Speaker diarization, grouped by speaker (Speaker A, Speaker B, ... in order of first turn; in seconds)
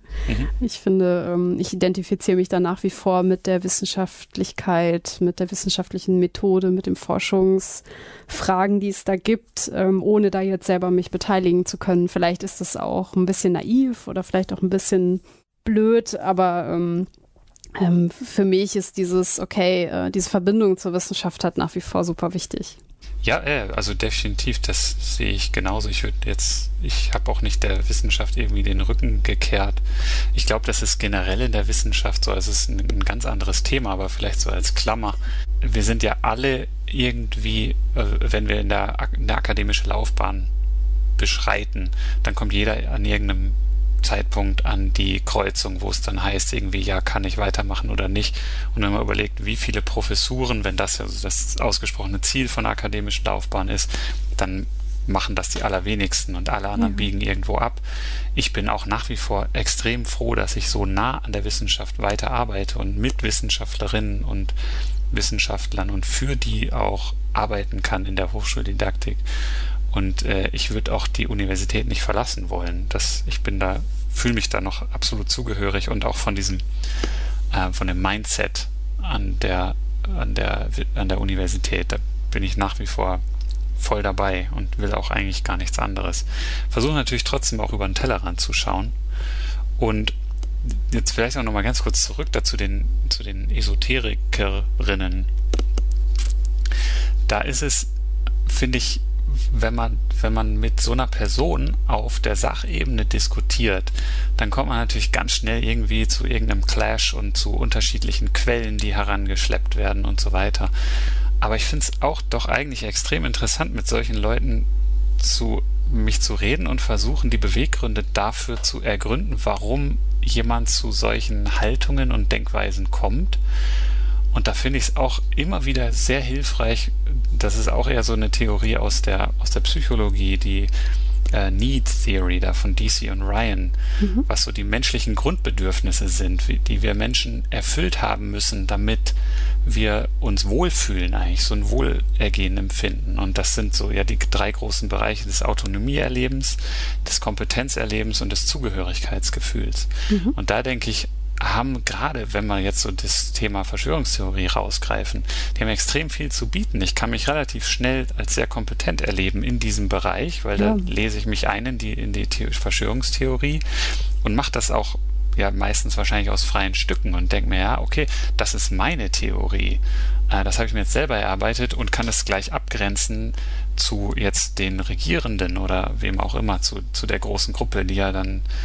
Speaker A: 0.6-17.1, 17.7-22.8, 56.8-57.0, 134.0-134.2, 150.1-150.3, 160.6-160.9
Speaker B: 23.2-29.8, 30.3-40.5, 41.2-57.8, 58.3-64.5, 65.1-69.2, 69.9-76.6, 77.5-83.2, 83.8-88.9, 89.8-95.3, 97.3-97.9, 98.5-110.7, 111.4-114.7, 115.2-123.4, 124.3-130.7, 131.3-133.7, 134.2-163.6, 164.2-178.4